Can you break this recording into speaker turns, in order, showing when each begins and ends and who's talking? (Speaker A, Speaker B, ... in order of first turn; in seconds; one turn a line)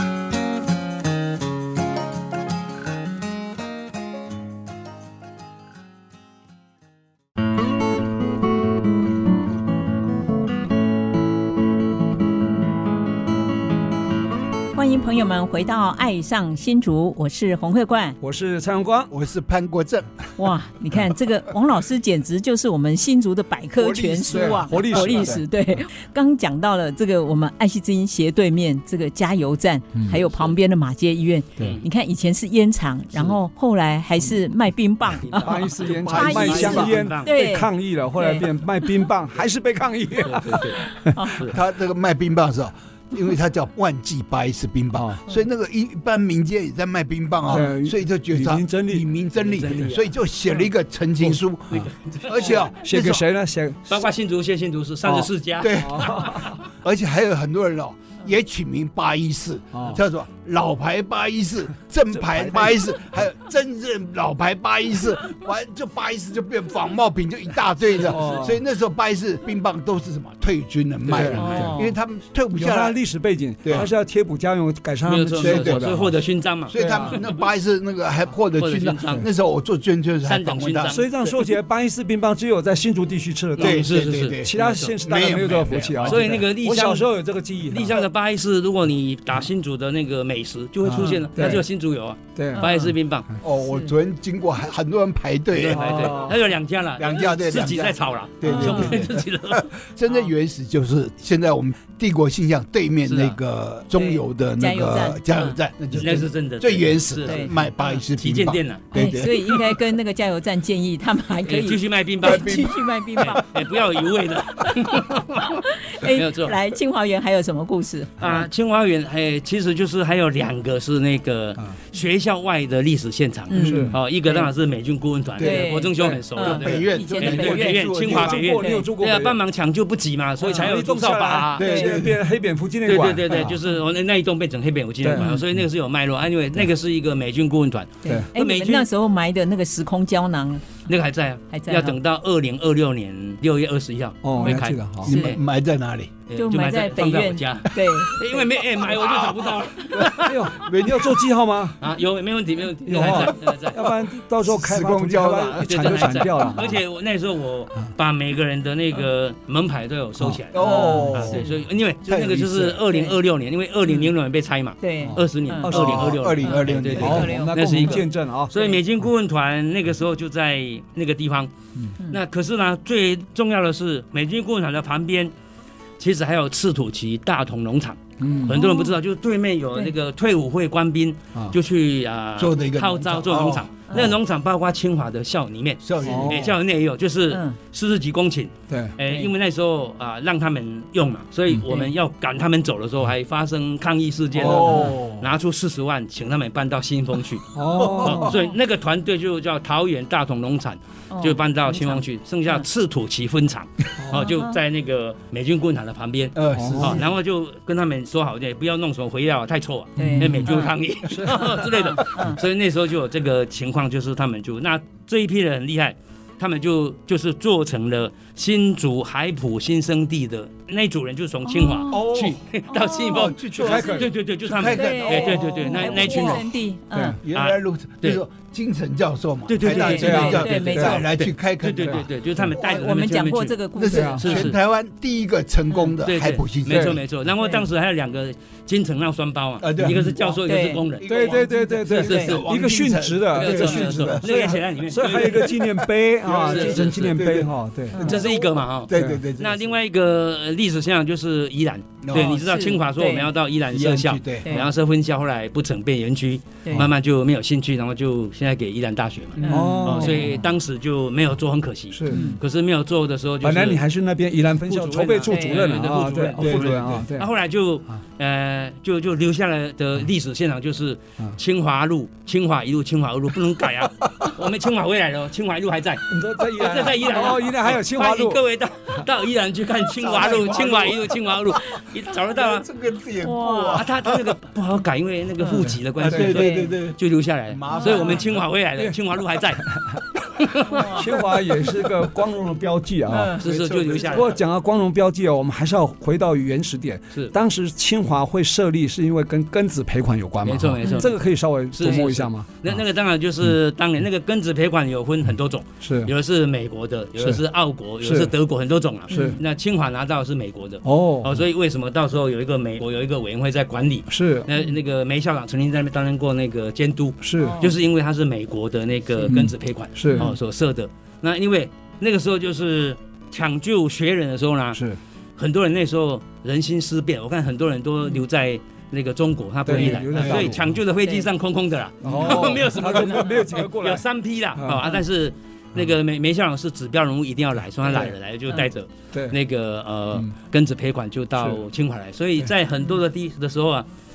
Speaker A: 14.7-18.2
Speaker B: 18.2-19.1
Speaker C: 19.1-20.1
Speaker A: 20.4-38.5
Speaker C: 23.8-25.4
Speaker B: 24.3-25.4
Speaker D: 31.6-31.8
Speaker D: 35.2-37.3
Speaker B: 35.4-41.1
Speaker C: 35.9-37.0
Speaker D: 40.2-40.8
Speaker A: 40.8-41.4
Speaker C: 41.5-53.2
Speaker B: 44.9-45.2
Speaker B: 47.5-49.1
Speaker D: 49.4-50.1
Speaker B: 51.3-51.9
Speaker D: 51.8-52.7
Speaker B: 52.8-54.0
Speaker D: 53.9-56.2
Speaker B: 55.0-56.6
Speaker C: 55.6-73.0
Speaker B: 59.7-60.0
Speaker B: 62.2-62.8
Speaker B: 68.0-68.6
Speaker D: 71.1-71.7
Speaker B: 71.1-71.8
Speaker A: 71.3-72.0
Speaker B: 72.5-76.1
Speaker C: 73.6-73.9
Speaker D: 75.0-77.4
Speaker C: 75.4-75.8
Speaker C: 76.7-81.3
Speaker A: 76.9-77.1
Speaker D: 78.6-79.2
Speaker D: 80.2-81.1
Speaker B: 80.9-88.0
Speaker D: 83.6-87.1
Speaker C: 83.6-86.4
Speaker D: 87.7-93.3
Speaker B: 90.8-91.7
Speaker B: 92.4-92.7
Speaker A: 92.5-92.9
Speaker C: 93.4-96.3
Speaker D: 95.5-99.7
Speaker B: 95.7-96.4
Speaker C: 97.0-109.8
Speaker A: 98.5-99.0
Speaker D: 103.0-103.4
Speaker A: 103.9-105.6
Speaker D: 105.9-108.8
Speaker A: 107.2-108.0
Speaker A: 108.9-113.5
Speaker D: 111.5-112.6
Speaker C: 112.2-114.1
Speaker D: 113.2-116.6
Speaker A: 114.6-118.5
Speaker D: 118.2-131.8
Speaker A: 123.5-124.5
Speaker B: 123.6-124.0
Speaker C: 123.6-123.9
Speaker C: 125.4-125.7
Speaker A: 125.4-128.9
Speaker B: 126.0-126.2
Speaker C: 126.4-128.6
Speaker B: 127.3-129.4
Speaker A: 130.4-130.7
Speaker B: 130.4-133.6
Speaker C: 131.6-132.2
Speaker A: 131.6-131.9
Speaker D: 132.9-138.9
Speaker B: 135.0-135.3
Speaker A: 135.2-135.4
Speaker A: 138.0-140.8
Speaker D: 140.9-145.4
Speaker A: 141.5-142.0
Speaker B: 144.2-145.1
Speaker C: 145.0-146.2
Speaker A: 145.1-145.4
Speaker D: 146.3-150.5
Speaker A: 146.4-148.4
Speaker C: 148.8-151.2
Speaker B: 150.2-151.8
Speaker D: 151.8-153.9
Speaker B: 152.8-156.8
Speaker C: 154.4-156.3
Speaker D: 155.6-171.5
Speaker B: 160.2-161.2
Speaker C: 160.5-161.4
Speaker A: 160.6-161.5
Speaker C: 162.1-162.8
Speaker A: 162.9-163.2
Speaker A: 163.9-164.1
Speaker A: 164.8-165.7
Speaker B: 165.0-166.4
Speaker C: 165.7-167.3
Speaker A: 166.4-168.8
Speaker B: 166.9-168.6
Speaker D: 172.1-175.3
Speaker D: 176.0-226.4
Speaker B: 178.2-178.6
Speaker A: 178.5-179.0
Speaker C: 182.4-184.1
Speaker C: 185.8-186.6
Speaker B: 186.0-186.5
Speaker A: 187.3-187.6
Speaker B: 188.7-188.9
Speaker A: 189.0-189.3
Speaker A: 191.7-191.9
Speaker C: 194.3-195.3
Speaker A: 194.5-195.0
Speaker B: 197.6-198.3
Speaker C: 197.8-198.2
Speaker A: 198.2-198.6
Speaker A: 201.1-202.6
Speaker B: 204.0-204.3
Speaker A: 204.2-204.6
Speaker C: 206.4-207.1
Speaker B: 206.5-207.0
Speaker B: 210.0-210.6
Speaker A: 210.0-210.7
Speaker B: 211.1-212.3
Speaker A: 211.6-212.4
Speaker A: 221.4-222.1
Speaker C: 221.9-222.4
Speaker A: 222.7-223.3
Speaker C: 223.1-226.5
Speaker B: 223.6-224.1
Speaker A: 224.7-227.2
Speaker B: 225.4-226.2
Speaker C: 227.2-232.9
Speaker D: 227.3-228.2
Speaker D: 229.5-233.6
Speaker A: 229.7-231.1
Speaker B: 229.8-231.0
Speaker B: 231.8-232.6
Speaker A: 232.6-234.5
Speaker C: 233.8-237.0
Speaker B: 233.9-234.5
Speaker D: 234.2-234.6
Speaker D: 236.0-241.4
Speaker B: 236.7-237.0
Speaker A: 237.4-237.7
Speaker C: 239.6-244.5
Speaker B: 239.8-240.1
Speaker A: 240.5-240.8
Speaker B: 241.0-248.1
Speaker A: 241.5-242.4
Speaker D: 242.0-242.4
Speaker D: 243.3-245.6
Speaker C: 245.2-249.8
Speaker D: 246.3-247.1
Speaker A: 247.9-248.2
Speaker D: 248.0-263.8
Speaker B: 248.9-249.2
Speaker C: 252.0-252.4
Speaker A: 252.3-253.3
Speaker C: 253.7-254.5
Speaker A: 254.4-254.7
Speaker C: 259.4-260.3
Speaker A: 259.4-259.8
Speaker B: 259.5-260.4
Speaker B: 261.9-262.3
Speaker A: 262.1-262.4
Speaker B: 263.4-267.3
Speaker D: 264.7-282.7
Speaker A: 265.3-265.6
Speaker C: 266.4-267.1
Speaker B: 276.1-278.4
Speaker C: 280.0-281.4
Speaker C: 282.1-284.4
Speaker A: 283.2-283.8
Speaker D: 283.3-289.6
Speaker A: 285.4-286.8
Speaker B: 285.5-286.2
Speaker C: 286.0-287.0
Speaker C: 287.5-288.4
Speaker A: 287.7-288.3
Speaker B: 289.6-290.0
Speaker D: 290.4-290.9
Speaker A: 290.7-291.1
Speaker B: 290.9-293.4
Speaker A: 293.1-293.4
Speaker D: 293.4-294.4
Speaker C: 293.4-294.3
Speaker B: 294.0-302.8
Speaker D: 300.4-301.2
Speaker D: 301.8-324.8
Speaker B: 305.8-306.1
Speaker B: 308.0-308.4
Speaker B: 309.1-309.4
Speaker A: 309.1-309.4
Speaker B: 310.8-311.5
Speaker B: 314.1-314.5
Speaker B: 317.2-317.6
Speaker A: 317.4-317.8
Speaker B: 319.3-320.3
Speaker A: 320.1-320.4
Speaker B: 324.7-325.0
Speaker D: 325.4-343.9
Speaker B: 329.6-330.7
Speaker C: 330.2-330.5
Speaker A: 331.0-331.3
Speaker B: 332.0-334.0
Speaker A: 332.2-333.4
Speaker B: 334.6-334.9
Speaker B: 337.8-338.1
Speaker B: 341.4-341.6